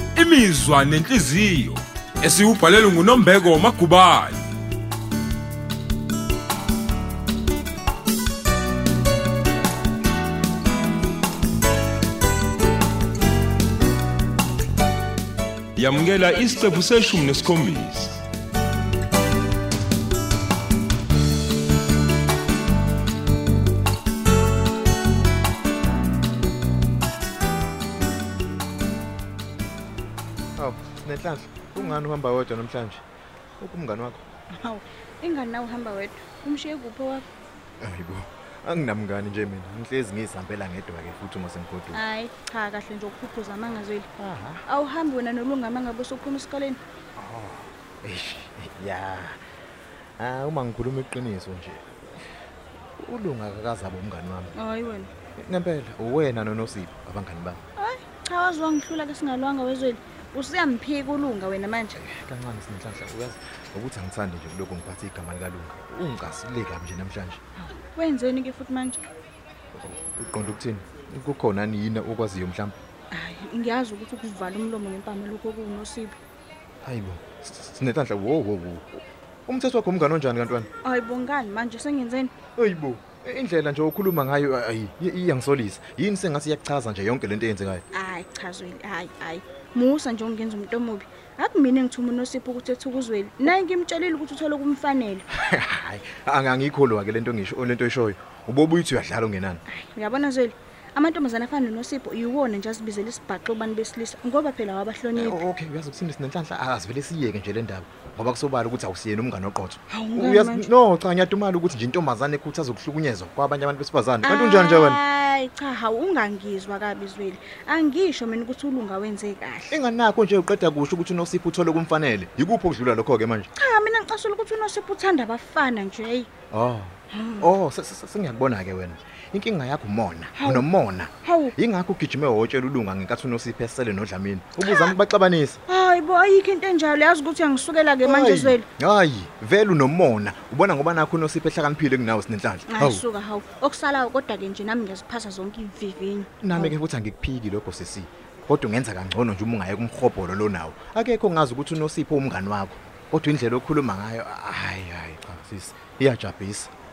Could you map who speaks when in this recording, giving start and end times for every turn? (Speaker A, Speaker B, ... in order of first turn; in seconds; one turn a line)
Speaker A: 0.1-4.4
Speaker A: 15.8-18.2
Speaker B: 30.6-33.0
Speaker B: 33.6-34.2
Speaker C: 34.5-37.2
Speaker B: 37.8-42.0
Speaker C: 41.9-44.1
Speaker B: 44.2-44.6
Speaker C: 44.6-46.8
Speaker B: 47.2-49.4
Speaker B: 50.2-51.9
Speaker B: 53.0-54.5
Speaker C: 54.5-55.1
Speaker B: 55.4-57.6
Speaker C: 57.8-62.0
Speaker B: 62.0-67.4
Speaker C: 67.6-69.0
Speaker B: 69.8-72.7
Speaker C: 73.1-76.2
Speaker B: 76.8-80.7
Speaker C: 80.8-82.3
Speaker B: 82.6-87.8
Speaker C: 87.9-95.2
Speaker B: 95.3-99.6
Speaker C: 99.7-105.4
Speaker B: 105.1-115.0
Speaker C: 109.9-110.7
Speaker C: 114.2-119.8
Speaker B: 119.7-123.5
Speaker C: 123.5-126.3
Speaker B: 126.5-135.6
Speaker C: 127.1-127.5
Speaker C: 130.3-130.7
Speaker C: 131.2-131.6
Speaker C: 134.6-134.9
Speaker C: 135.7-138.7
Speaker B: 138.0-143.0
Speaker C: 142.7-146.8
Speaker B: 146.4-156.7